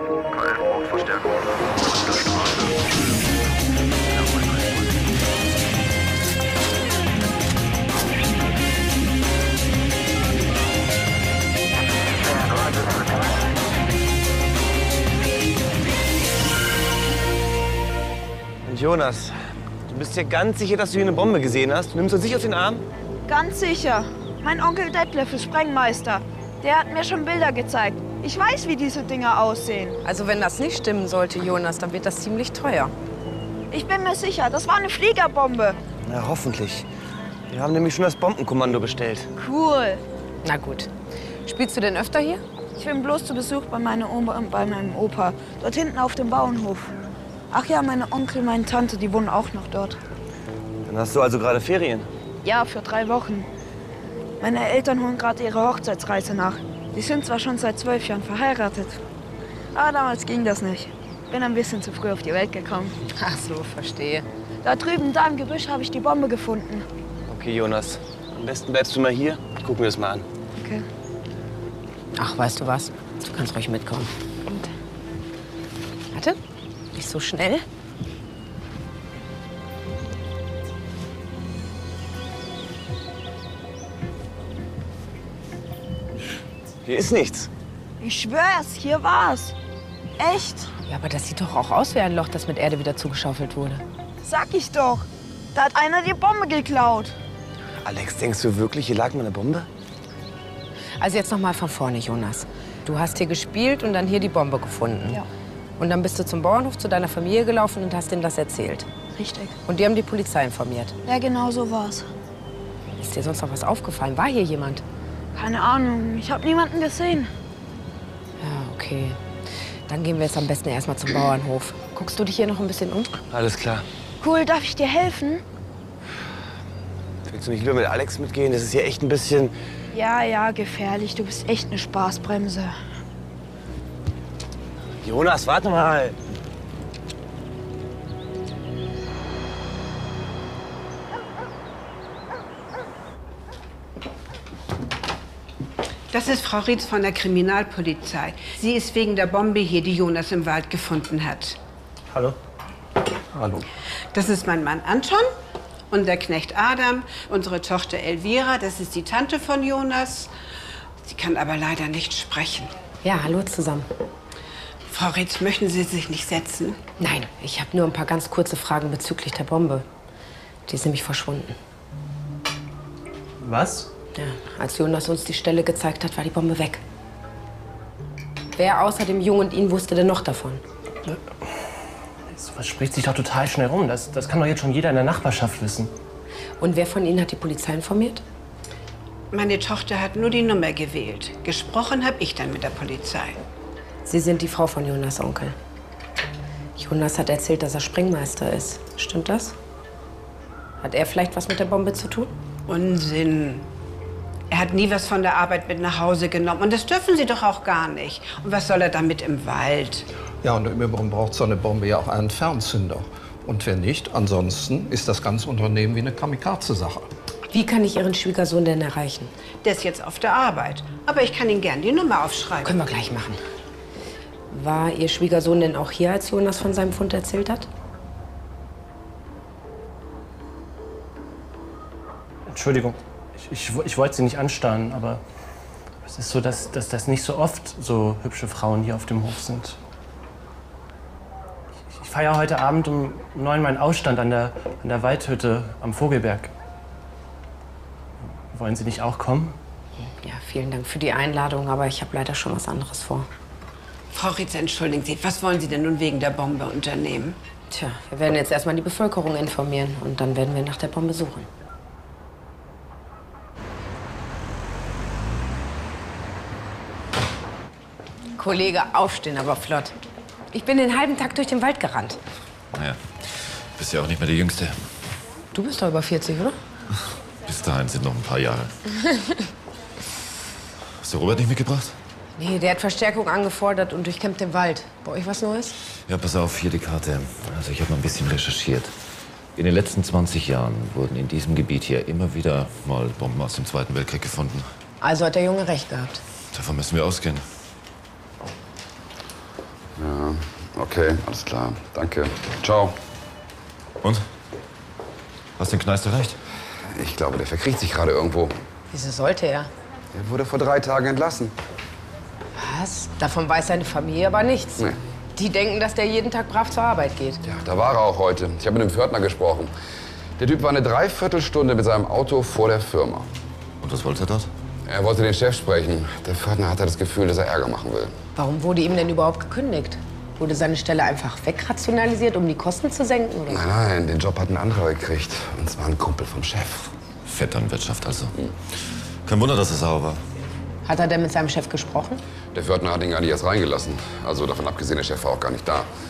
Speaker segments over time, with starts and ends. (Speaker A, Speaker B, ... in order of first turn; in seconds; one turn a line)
Speaker A: 0.4-2.9
Speaker A: 3.9-5.0
Speaker A: 12.2-13.4
Speaker A: 18.6-19.3
Speaker A: 19.9-22.9
Speaker B: 23.3-30.0
Speaker C: 30.0-32.9
Speaker B: 33.7-35.8
Speaker A: 36.0-36.9
Speaker A: 37.5-39.3
Speaker B: 39.4-40.0
Speaker C: 40.4-40.9
Speaker C: 41.5-42.4
Speaker B: 42.8-46.9
Speaker B: 47.5-50.0
Speaker A: 50.9-52.1
Speaker B: 52.4-53.5
Speaker B: 54.4-59.0
Speaker B: 59.7-63.0
Speaker C: 63.1-64.3
Speaker B: 64.6-66.9
Speaker A: 67.3-70.3
Speaker B: 70.6-70.8
Speaker C: 72.2-74.7
Speaker C: 76.1-76.4
Speaker C: 76.9-77.7
Speaker A: 86.8-87.5
Speaker B: 88.0-89.5
Speaker B: 90.2-90.7
Speaker C: 90.9-93.8
Speaker B: 94.2-97.2
Speaker A: 97.8-99.7
Speaker C: 101.0-105.2
Speaker C: 105.8-108.9
Speaker B: 109.2-109.6
Speaker C: 109.7-111.0
Speaker B: 111.1-112.1
Speaker C: 113.0-114.8
Speaker B: 115.3-117.3
Speaker C: 118.4-119.2
Speaker C: 119.9-123.1
Speaker A: 123.3-123.8
Speaker B: 124.2-125.4
Speaker A: 127.3-129.5
Speaker B: 129.9-132.8
Speaker A: 135.0-136.2
Speaker D: 146.1-151.6
Speaker E: 153.3-153.7
Speaker D: 154.1-155.3
Speaker D: 155.9-160.3
Speaker D: 161.1-162.7
Speaker C: 163.0-163.9
Speaker D: 164.9-166.8
Speaker C: 167.0-169.8
Speaker C: 170.7-171.6
Speaker F: 173.4-173.9
Speaker C: 174.2-176.8
Speaker C: 178.6-180.6
Speaker F: 181.1-181.5
Speaker F: 182.3-185.9
Speaker C: 186.6-188.2
Speaker D: 189.3-193.4
Speaker C: 194.1-195.6
Speaker C: 196.8-199.6
Speaker C: 200.8-202.3
Speaker D: 202.7-203.7
Speaker D: 204.5-210.1
Speaker E: 210.4-217.1
Speaker C: 217.5-219.3
Speaker D: 219.6-222.8
Speaker C: 222.6-223.4
Speaker C: 224.5-227.7
Speaker F: 232.5-235.2
Speaker F: 236.1-239.8
Speaker F: 241.9-246.5
Speaker F: 248.5-249.6
Speaker C: 250.0-253.3
Speaker D: 254.1-257.4
Speaker C: 257.7-261.5
Speaker C: 268.4-269.9
Speaker C: 270.5-272.2
Speaker G: 272.7-273.0
Speaker G: 273.8-274.8
Speaker C: 275.5-276.6
Speaker G: 277.5-278.7
Speaker G: 281.0-282.0
Speaker C: 282.4-285.8
Speaker G: 286.1-288.9
Speaker G: 289.6-294.7
Speaker C: 295.0-296.2
Speaker G: 296.5-297.4
Speaker H: 300.0-303.0
Speaker G: 305.6-306.4
Speaker H: 306.9-308.6
Speaker C: 308.9-309.7
Speaker H: 310.1-311.6
Speaker C: 312.6-314.8
Speaker C: 315.4-317.4
Speaker H: 317.4-319.7
Speaker H: 320.4-323.3
Speaker G: 323.8-324.5
Speaker H: 324.9-328.1
Speaker C: 328.4-333.6
Speaker H: 333.5-336.9
Speaker G: 337.3-338.3
Speaker G: 339.2-340.2
Speaker C: 340.9-342.2
Speaker H: 342.5-345.9